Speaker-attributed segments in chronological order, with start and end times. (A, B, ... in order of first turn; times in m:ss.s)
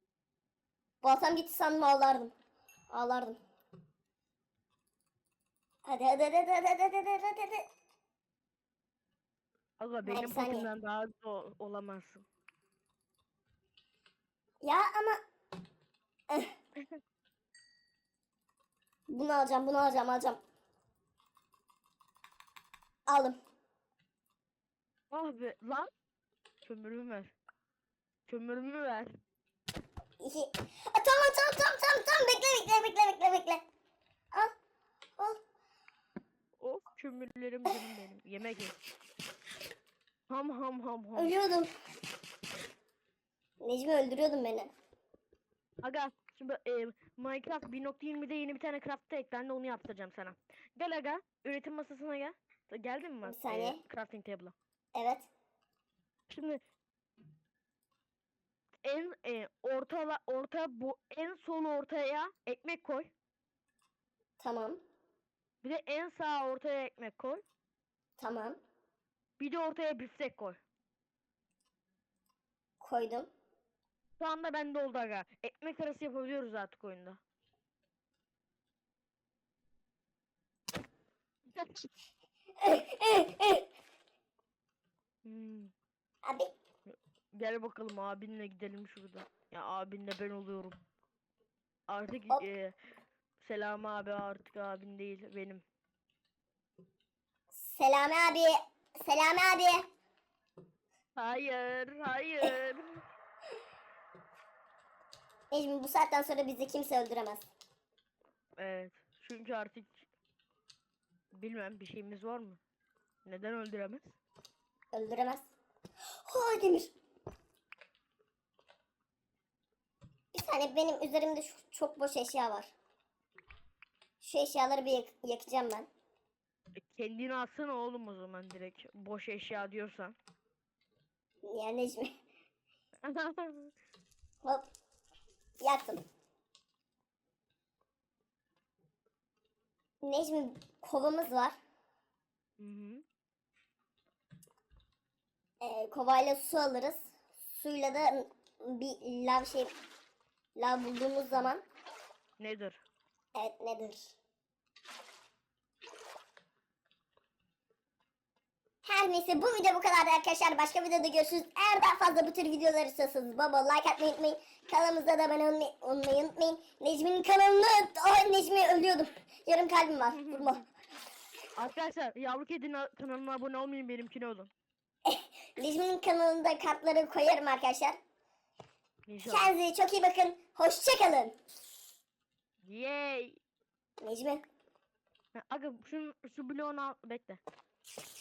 0:01.0-0:02.3 A
0:02.9-0:03.4 A
0:05.8-0:07.6 A
0:09.8-0:12.2 B
0:10.0-0:10.7 A
0:14.6-0:15.2 A
0:19.1-0:20.4 A
0:23.1-0:23.4 A
0:25.1-0:25.9 B
0:26.6-0:27.3 B
0:28.3-0:29.2 B
0:30.2-0:33.6 A
0:36.6-0:38.8 B
0:40.3-0:41.4 B
0:41.2-0:41.7 A
0:43.6-0:44.7 A
0:45.8-0:54.5 B
0:53.2-0:53.8 A
0:54.9-0:55.3 A
0:56.3-0:56.6 B
0:58.8-1:03.1 B
1:04.4-1:04.8 A
1:05.6-1:07.4 B
1:08.2-1:08.6 A
1:09.4-1:10.6 B
1:12.8-1:13.3 A
1:14.2-1:17.2 B
1:21.5-1:21.9 B
1:22.6-1:23.6 A
1:25.2-1:25.7 B
1:26.2-1:26.5 A
1:26.9-1:30.8 B
1:31.9-1:32.8 B
1:33.4-1:35.6 B
1:37.6-1:39.8 A
1:41.2-1:43.0 B
1:45.5-1:47.5 A
1:48.6-1:50.1 B
1:51.3-1:52.6 B
1:53.2-1:54.1 B
1:54.9-1:55.4 A
1:56.2-1:56.9 A
2:00.3-2:02.7 A
2:04.2-2:05.9 A
2:06.8-2:10.2 B
2:11.4-2:12.1 A
2:13.0-2:13.7 B
2:15.6-2:16.0 A
2:20.0-2:21.6 A
2:22.6-2:23.0 B
2:25.6-2:29.7 A
2:30.6-2:31.6 A
2:32.4-2:32.8 B
2:33.4-2:34.1 A
2:38.8-2:50.7 A
2:50.1-2:50.6 B
2:51.6-2:54.5 B
2:55.1-2:58.0 A
2:59.1-2:59.5 B
2:59.2-3:01.3 A
3:02.6-3:03.4 B
3:04.0-3:04.4 A
3:05.3-3:07.4 B